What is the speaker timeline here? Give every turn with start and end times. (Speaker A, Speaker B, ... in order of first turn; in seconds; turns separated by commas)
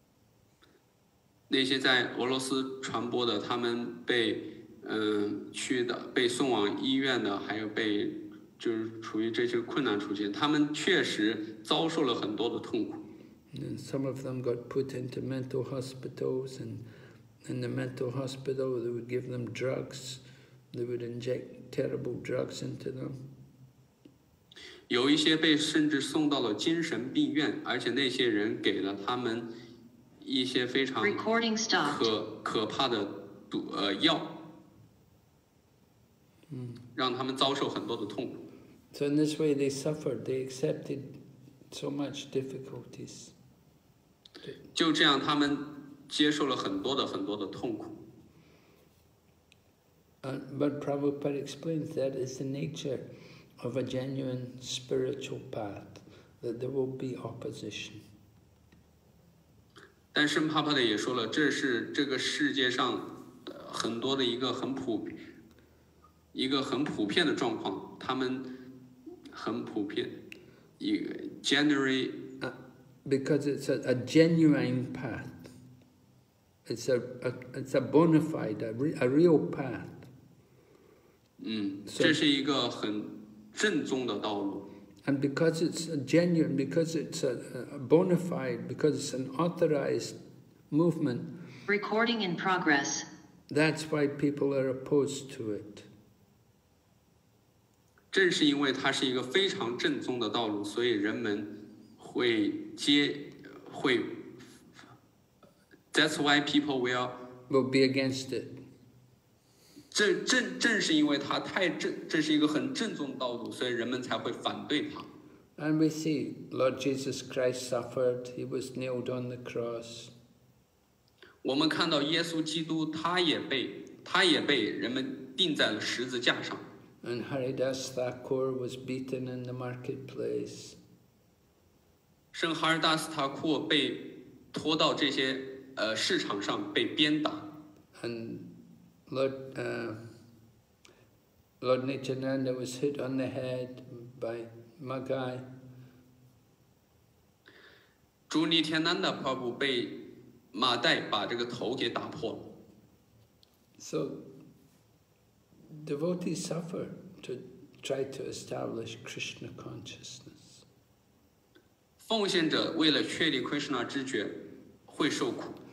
Speaker A: 1.5-13.0, Speaker B: 13.5-16.8, Speaker B: 17.4-23.2, Speaker A: 24.9-29.5, Speaker A: 30.2-31.2, Speaker C: 31.0-32.0, Speaker A: 31.8-34.3, Speaker B: 36.5-36.8, Speaker A: 36.9-38.4, Speaker B: 38.9-41.2, Speaker B: 41.7-43.3, Speaker A: 44.7-48.0, Speaker B: 50.2-58.0, Speaker A: 60.1-65.2, Speaker A: 66.3-68.5, Speaker A: 69.3-70.2, Speaker A: 70.8-72.2, Speaker B: 72.4-75.5, Speaker B: 76.7-80.0, Speaker A: 81.4-84.6, Speaker B: 81.8-82.2, Speaker B: 85.0-90.2, Speaker B: 90.7-91.3, Speaker C: 91.7-93.0, Speaker B: 93.5-95.9, Speaker A: 98.1-104.2, Speaker A: 105.9-107.1, Speaker B: 107.5-108.5, Speaker A: 109.9-115.1, Speaker B: 115.6-120.1, Speaker A: 121.4-126.6, Speaker B: 127.0-130.8, Speaker A: 132.3-137.4, Speaker B: 137.9-138.5, Speaker B: 139.1-140.0, Speaker B: 141.6-145.5, Speaker A: 148.3-149.9, Speaker A: 150.5-152.4, Speaker B: 153.8-154.2, Speaker B: 155.7-160.6, Speaker A: 162.0-164.3, Speaker A: 164.9-165.6